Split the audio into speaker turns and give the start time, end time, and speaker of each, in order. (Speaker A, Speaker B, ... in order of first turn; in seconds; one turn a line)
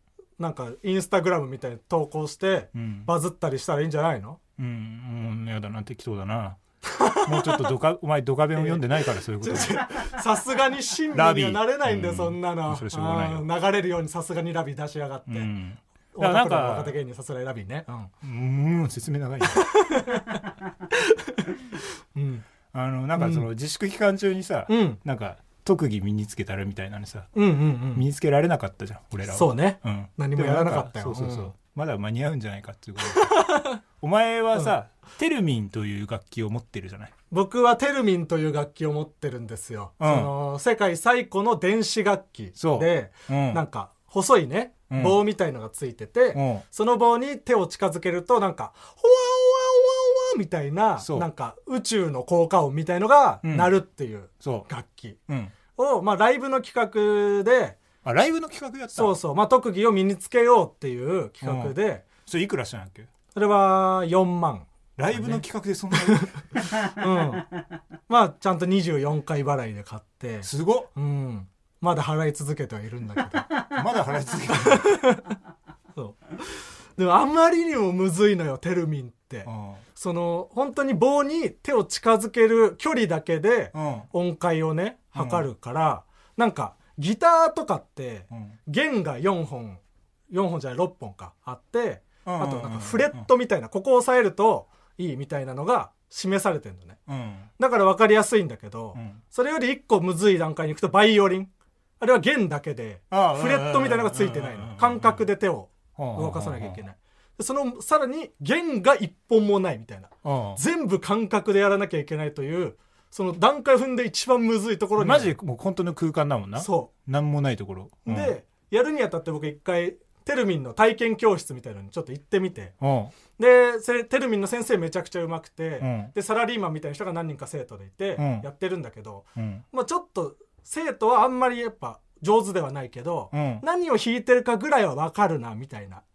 Speaker A: 0.4-4.4
Speaker B: 2.8-3.1
Speaker B: 4.6-6.6
Speaker A: 6.8-7.7
Speaker B: 7.2-10.2
Speaker A: 8.5-15.5
Speaker B: 11.1-13.5
Speaker B: 15.3-17.0
Speaker A: 16.1-18.1
Speaker B: 18.2-19.7
Speaker A: 19.5-22.4
Speaker B: 22.7-27.3
Speaker A: 23.2-23.5
Speaker A: 24.7-25.0
Speaker A: 27.3-28.0
Speaker B: 27.9-33.5
Speaker A: 29.3-31.5
Speaker A: 33.0-33.8
Speaker B: 34.0-37.1
Speaker A: 37.3-55.2
Speaker B: 40.0-40.3
Speaker B: 42.6-43.6
Speaker B: 44.9-45.2
Speaker B: 46.3-46.6
Speaker B: 51.0-51.3
Speaker B: 53.4-53.7
Speaker B: 54.4-54.7
Speaker B: 55.3-55.5
Speaker A: 55.8-57.8
Speaker B: 58.0-59.1
Speaker A: 58.9-62.0
Speaker B: 61.4-61.8
Speaker B: 62.3-63.1
Speaker A: 63.4-67.5
Speaker B: 65.0-66.3
Speaker A: 68.1-73.6
Speaker B: 70.4-70.9
Speaker B: 73.6-75.0
Speaker A: 74.5-75.3
Speaker A: 76.0-97.0
Speaker B: 79.5-79.8
Speaker B: 83.7-84.1
Speaker B: 85.2-85.5
Speaker B: 92.2-93.3
Speaker B: 97.1-97.5
Speaker A: 97.6-115.3
Speaker B: 103.1-105.3
Speaker B: 106.0-106.8
Speaker B: 110.2-110.6
Speaker B: 115.0-118.3
Speaker A: 116.6-116.9
Speaker A: 118.1-122.8
Speaker B: 122.8-123.1
Speaker A: 123.4-136.0
Speaker B: 125.8-126.1
Speaker B: 128.2-128.5
Speaker B: 129.4-129.6
Speaker B: 133.3-133.6